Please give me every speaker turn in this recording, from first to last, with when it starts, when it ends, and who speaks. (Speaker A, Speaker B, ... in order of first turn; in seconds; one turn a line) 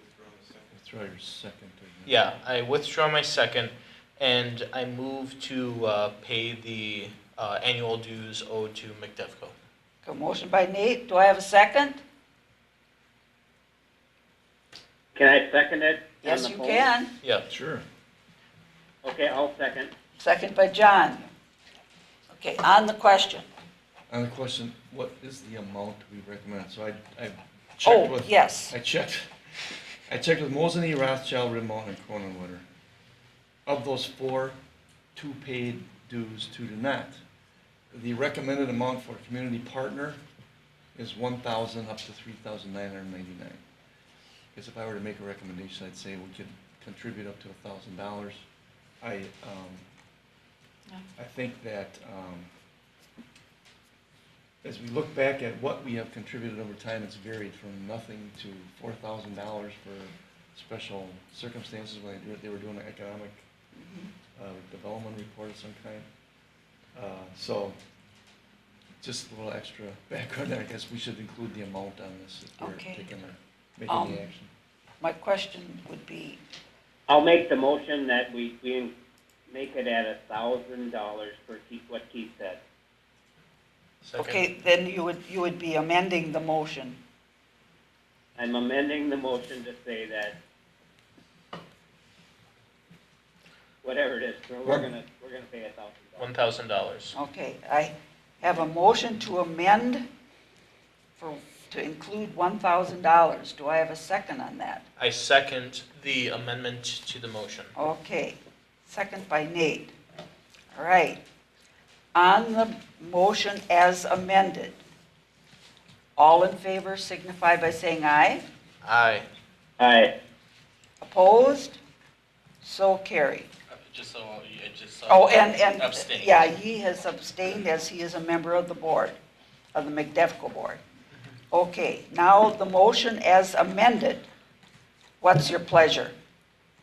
Speaker A: 0.6-2.2
Speaker B: 2.1-9.5
Speaker C: 10.0-12.0
Speaker D: 15.2-16.9
Speaker C: 16.2-17.1
Speaker A: 17.5-17.8
Speaker D: 19.0-19.9
Speaker C: 20.2-21.2
Speaker C: 22.3-23.5
Speaker A: 24.1-29.3
Speaker C: 27.8-28.7
Speaker A: 30.1-32.6
Speaker A: 33.7-34.6
Speaker A: 35.2-37.2
Speaker A: 37.9-40.2
Speaker A: 41.0-43.6
Speaker A: 44.5-48.4
Speaker A: 49.0-49.8
Speaker A: 51.2-52.5
Speaker A: 54.6-63.4
Speaker C: 63.8-64.1
Speaker A: 64.4-66.1
Speaker A: 67.0-67.8
Speaker A: 69.0-74.5
Speaker C: 72.6-73.0
Speaker C: 73.9-74.3
Speaker C: 75.0-76.4
Speaker D: 77.1-78.9
Speaker D: 79.5-82.6
Speaker B: 84.0-84.4
Speaker C: 84.2-87.0
Speaker D: 88.4-90.4
Speaker D: 93.8-96.2
Speaker B: 96.2-97.1
Speaker C: 97.1-100.1
Speaker C: 101.2-104.8
Speaker B: 105.0-107.7
Speaker C: 107.8-109.9
Speaker C: 110.7-111.2
Speaker C: 112.1-114.8
Speaker C: 116.2-118.4
Speaker B: 118.8-119.3
Speaker D: 119.8-120.1
Speaker C: 121.0-121.8
Speaker C: 122.6-123.5
Speaker E: 123.7-126.5
Speaker C: 125.1-129.2
Speaker C: 129.7-130.8
Speaker C: 131.5-134.2
Speaker C: 135.2-136.1